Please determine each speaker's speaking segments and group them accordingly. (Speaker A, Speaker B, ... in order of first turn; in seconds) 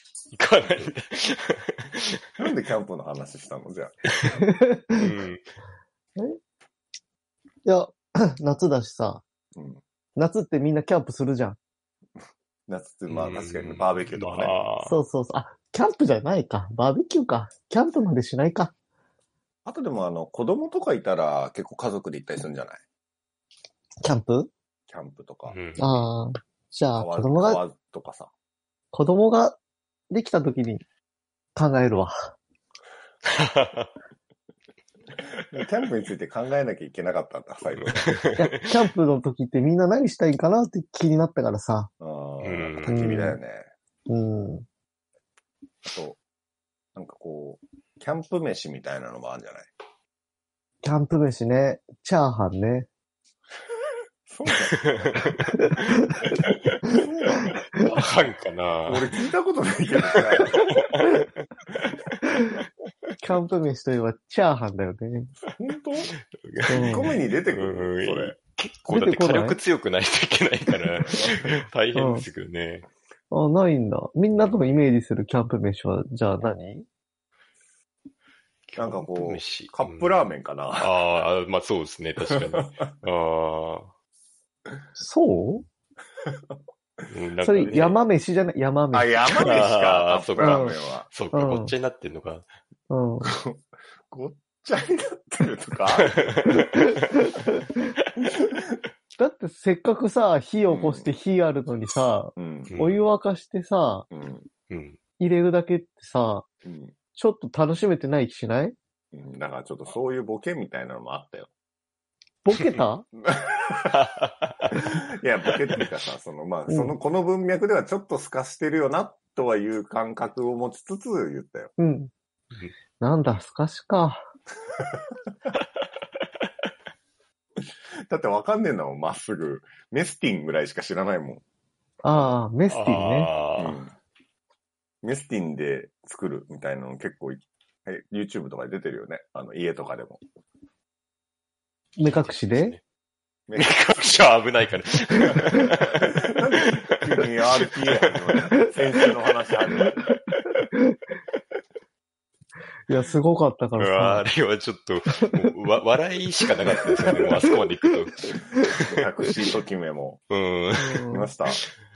Speaker A: 0.3-2.3, 4.9-5.4, 13.1-15.0, 25.5-25.9, 33.2-33.9, 37.8-38.5, 42.4-43.2, 54.7-55.4, 57.8-59.2, 60.1-61.2, 66.3-72.9, 78.7-80.2, 80.8-83.9, 87.1-88.0, 89.4-92.5, 96.0-96.9, 102.7-103.0, 104.7-105.0, 113.9-114.8, 132.7-133.8, 142.1-142.8, 143.6-149.1, 149.8-150.4, 153.8-159.0, 160.3-161.1
Speaker B: 2.4-4.1, 9.5-9.8, 12.7-14.5, 19.6-22.8, 24.9-25.6, 26.9-28.3, 35.5-38.2, 42.0-43.7, 45.9-46.2, 46.9-49.7, 54.3-55.2, 56.9-57.6, 58.9-61.0, 65.5-66.1, 66.7-68.3, 71.1-71.4, 78.8-81.2, 82.2-82.8, 86.3-86.5, 88.9-91.1, 93.2-96.4, 98.2-98.6, 100.7-101.1, 102.4-102.8, 104.1-104.5, 106.6-106.9, 109.1-111.5, 113.2-114.0, 114.7-121.7, 128.1-131.4, 133.6-133.9, 135.0-140.2, 143.5-143.8, 145.5-150.1, 158.8-160.2, 161.1-161.6
Speaker C: 4.4-5.1, 7.6-9.2, 10.2-11.6, 14.8-18.7, 24.0-24.5, 25.8-27.6, 28.9-29.6, 30.1-30.8, 31.5-32.3, 38.4-41.9, 42.9-43.4, 44.1-44.6, 50.8-52.9, 55.6-56.2, 56.9-57.9, 62.2-62.5, 63.2-65.3, 66.7-67.1, 68.9-69.6, 71.9-72.2, 73.3-76.9, 85.0-85.6, 87.4-89.5, 90.4-90.7, 91.3-91.7, 92.9-93.4, 96.5-97.8, 99.2-104.1, 105.2-106.4, 107.1-108.7, 112.4-113.0, 116.7-116.9, 121.8-122.1, 123.0-124.2, 132.0-133.3, 142.0-142.8, 152.9-154.2, 160.8-161.3